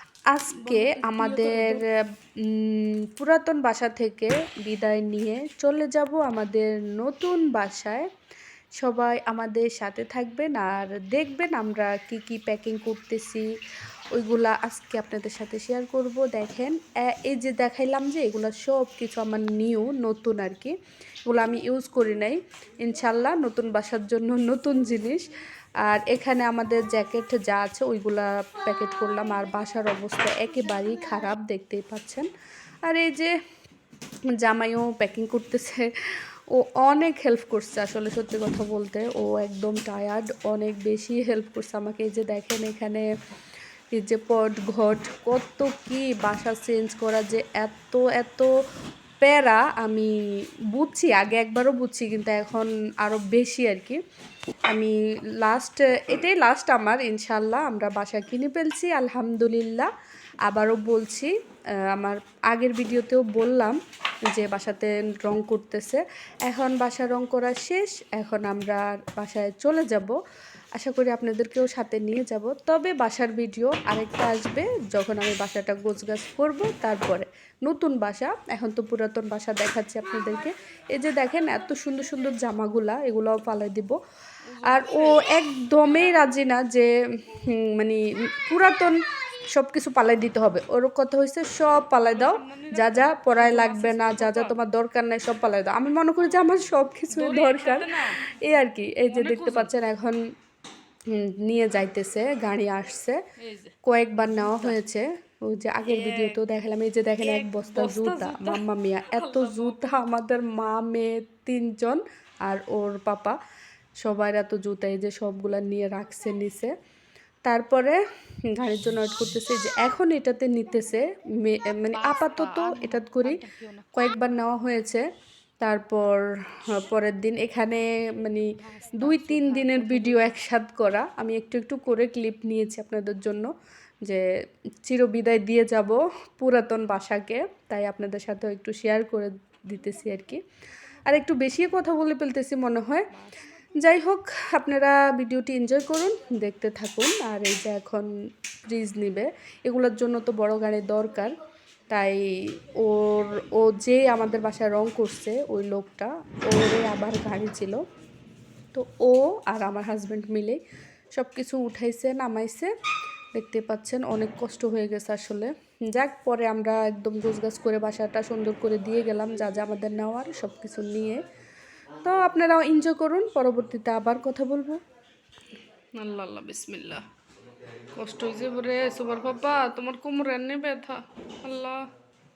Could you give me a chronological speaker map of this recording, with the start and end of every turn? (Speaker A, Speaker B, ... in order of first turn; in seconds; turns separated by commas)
Speaker A: 0.3-1.9, Speaker B: 0.6-1.8, Speaker A: 2.5-8.1, Speaker A: 8.8-13.5, Speaker A: 14.1-20.7, Speaker A: 21.2-25.3, Speaker A: 25.8-32.3, Speaker A: 32.9-33.3, Speaker A: 34.4-35.9, Speaker A: 36.5-43.0, Speaker A: 43.9-48.5, Speaker A: 49.2-50.1, Speaker A: 50.7-54.0, Speaker A: 54.7-59.9, Speaker A: 60.5-61.3, Speaker A: 61.9-63.8, Speaker A: 64.3-70.2, Speaker A: 70.8-84.0, Speaker B: 84.5-85.2, Speaker A: 84.6-100.2, Speaker B: 85.9-86.2, Speaker B: 92.1-94.5, Speaker B: 97.1-98.2, Speaker B: 99.1-99.7, Speaker A: 101.1-103.2, Speaker B: 103.4-103.7, Speaker A: 103.8-113.3, Speaker B: 104.3-104.8, Speaker B: 105.8-106.4, Speaker B: 107.2-110.1, Speaker A: 114.0-116.7, Speaker A: 117.4-118.0, Speaker A: 118.5-123.4, Speaker B: 121.9-124.1, Speaker A: 123.9-125.0, Speaker A: 125.6-128.5, Speaker B: 128.6-130.4, Speaker A: 129.0-133.5, Speaker A: 134.8-140.4, Speaker A: 141.1-143.1, Speaker A: 143.8-148.1, Speaker A: 148.7-151.3, Speaker A: 151.9-157.8, Speaker A: 158.7-160.6, Speaker A: 161.1-162.7, Speaker A: 163.3-171.2, Speaker A: 172.0-174.8, Speaker B: 176.0-177.0, Speaker B: 177.9-181.7